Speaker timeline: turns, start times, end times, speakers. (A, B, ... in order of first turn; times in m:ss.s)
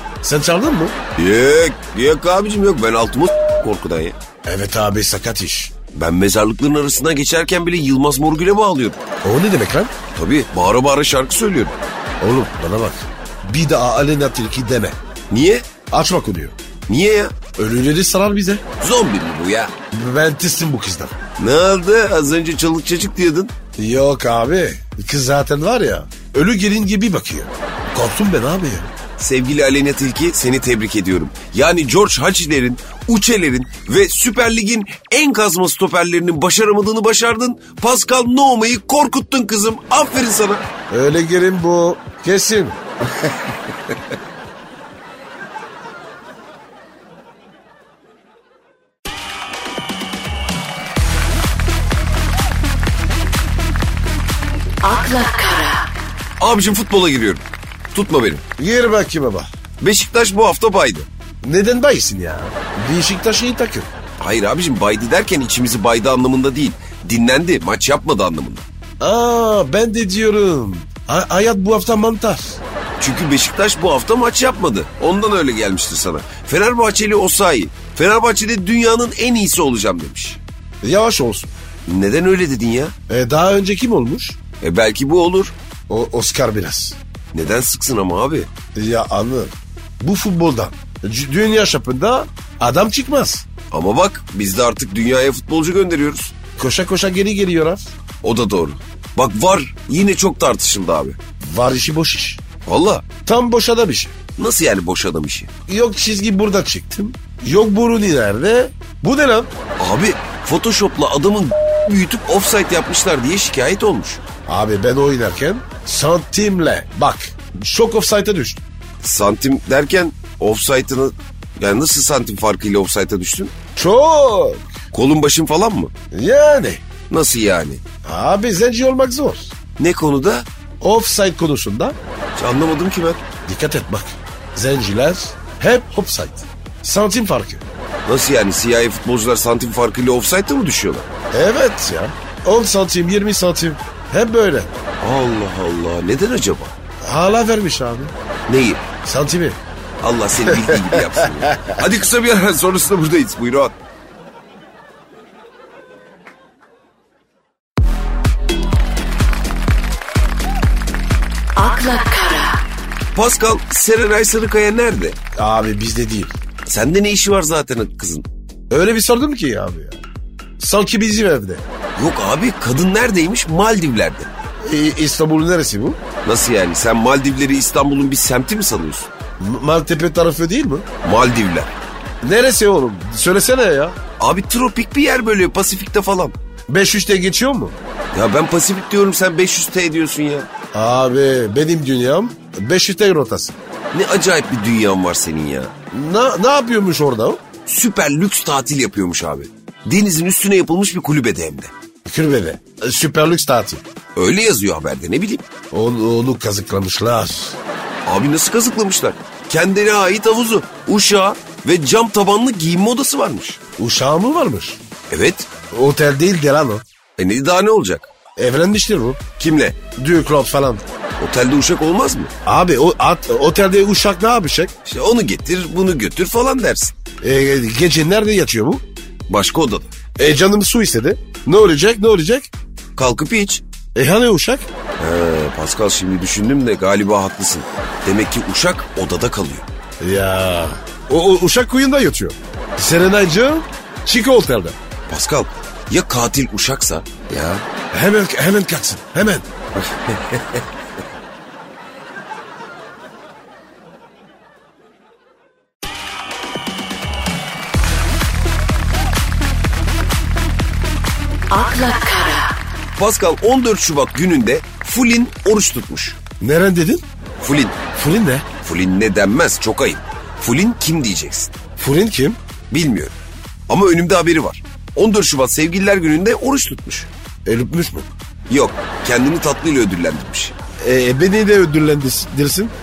0:00.2-0:00.9 A
0:01.2-0:04.2 B
0:04.4-0:05.7 A
0:05.9-0:09.0 B
0:09.2-0:09.9 A
0:10.1-0:11.8 B
0:12.2-0:15.0 A
0:15.3-0:15.6 B
0:15.9-0:16.5 A
0:16.9-0:17.4 B
0:17.6-0:18.6 A
0:18.8-0:19.7 B
0:19.9-0:21.1 A
0:21.4-0:23.5 B
0:23.8-0:28.9 A
0:29.2-0:40.6 B
0:40.9-0:42.8 A
0:54.9-0:55.8 C
0:56.4-0:58.4 B
0:58.6-0:59.5 A
0:59.8-1:01.1 B
1:01.4-1:03.9 A
1:04.2-1:08.7 B
1:09.0-1:12.6 A
1:13.0-1:20.4 B
1:20.8-1:21.5 A
1:21.9-1:22.9 B
1:23.1-1:24.4 A
1:24.6-1:25.5 B
1:25.9-1:27.0 A
1:27.3-1:28.5 B
1:28.8-1:33.5 A
1:33.7-1:36.4 B
1:36.6-1:37.9 A
1:38.2-1:41.2 B
1:41.5-1:42.4 A
1:42.6-1:43.1 B
1:43.2-1:44.1 A
1:44.4-1:45.5 B
1:45.7-1:49.5 A
1:49.8-1:54.2 B
1:54.5-1:58.6 A
1:59.0-2:03.5 B
2:03.8-2:04.7 A
2:04.9-2:05.9 B
2:06.1-2:06.8 A
2:07.1-2:07.8 B
2:08.0-2:09.5 A
2:09.8-2:10.5 B
2:10.8-2:12.0 A
2:12.4-2:13.2 B
2:13.5-2:17.6 A
2:18.0-2:21.1 B
2:21.3-2:24.8 A
2:25.0-2:26.7 B
2:27.0-2:28.1 A
2:28.5-2:28.8 B
2:29.0-2:29.6 A
2:30.0-2:33.8 B
2:30.5-2:31.8 A
2:41.6-2:42.6 C
2:43.1-2:45.2 B
2:45.4-2:46.3 A
2:46.7-2:48.2 B
2:48.7-2:50.0 A
2:50.6-2:51.6 A
2:52.0-2:54.3 B
2:54.6-2:56.0 A
2:56.2-2:59.1 B
2:59.4-3:00.8 A
3:01.0-3:01.8 B
3:02.2-3:04.0 A
3:04.2-3:06.4 B
3:06.7-3:07.8 A
3:08.1-3:10.5 B
3:10.7-3:13.6 A
3:13.9-3:15.7 B
3:15.9-3:17.4 A
3:17.6-3:21.7 B
3:22.0-3:23.8 A
3:24.2-3:25.5 B
3:25.7-3:27.6 A
3:28.0-3:33.6 B
3:33.8-3:34.8 A
3:35.1-3:35.5 B
3:35.7-3:36.8 A
3:37.2-3:38.1 B
3:38.4-3:39.2 A
3:39.4-3:39.8 B
3:40.0-3:40.8 A
3:41.2-3:42.3 B
3:42.5-3:44.7 A
3:44.8-3:46.9 B
3:47.2-3:48.8 A
3:49.3-3:49.9 B
3:50.2-3:52.5 A
3:53.0-3:53.6 B
3:54.0-3:54.7 A
3:55.0-3:59.6 B
4:00.0-4:04.8 A
4:05.1-4:07.6 B
4:07.9-4:09.5 A
4:09.9-4:10.6 B
4:21.5-4:22.5 C
4:23.0-4:26.2 B
4:26.4-4:27.0 A
4:27.4-4:27.8 B
4:28.0-4:28.4 A
4:28.6-4:31.5 B
4:31.8-4:32.4 A
4:32.7-4:33.2 B
4:33.7-4:37.1 B
4:37.5-4:38.1 A
4:38.5-4:40.5 B
4:40.8-4:42.7 A